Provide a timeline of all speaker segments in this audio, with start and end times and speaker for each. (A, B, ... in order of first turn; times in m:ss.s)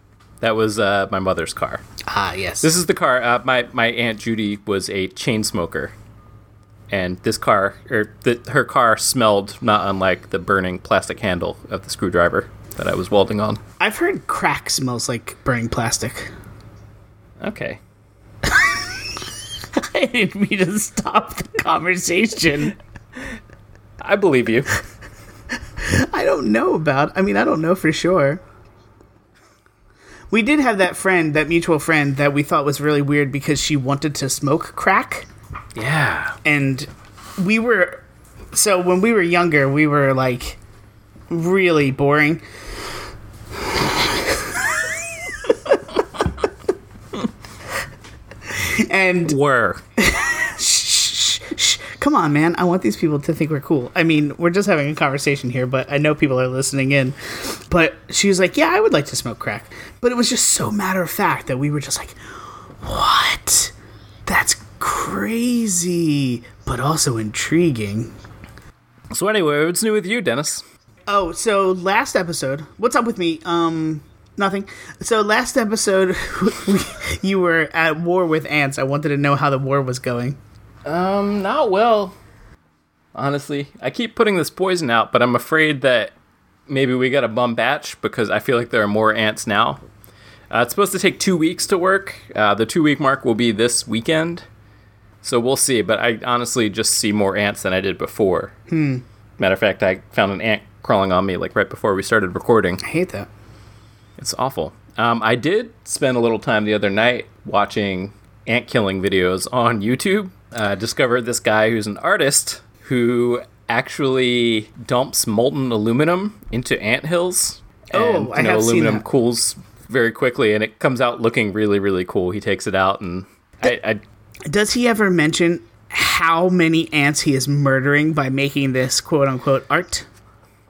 0:00.4-0:01.8 A
0:02.1-0:02.7 B
0:02.6-0:05.9 A
0:06.9-0:13.6 A
0:13.8-0:16.3 B
0:17.4-0:17.8 A
0:18.4-0:19.0 B
0:19.8-0:22.8 B
0:24.0-0:24.8 A
0:25.8-0:28.4 B
0:30.3-0:35.3 B
0:35.8-0:36.4 A
0:36.4-0:40.6 B
0:41.3-0:42.4 B
0:48.5-0:49.4 B
0:49.3-0:49.8 A
0:50.0-1:02.2 B
1:02.8-1:03.7 B
1:04.3-1:08.1 B
1:09.1-1:10.6 A
1:11.1-1:20.4 B
1:20.8-1:22.1 A
1:23.1-1:26.1 A
1:26.7-1:29.8 A
1:30.5-1:34.5 A
1:35.2-1:38.5 A
1:38.7-1:39.0 B
1:39.4-1:42.8 A
1:42.8-1:43.3 B
1:44.2-2:04.0 A
1:57.9-1:59.0 B
2:04.5-2:10.1 B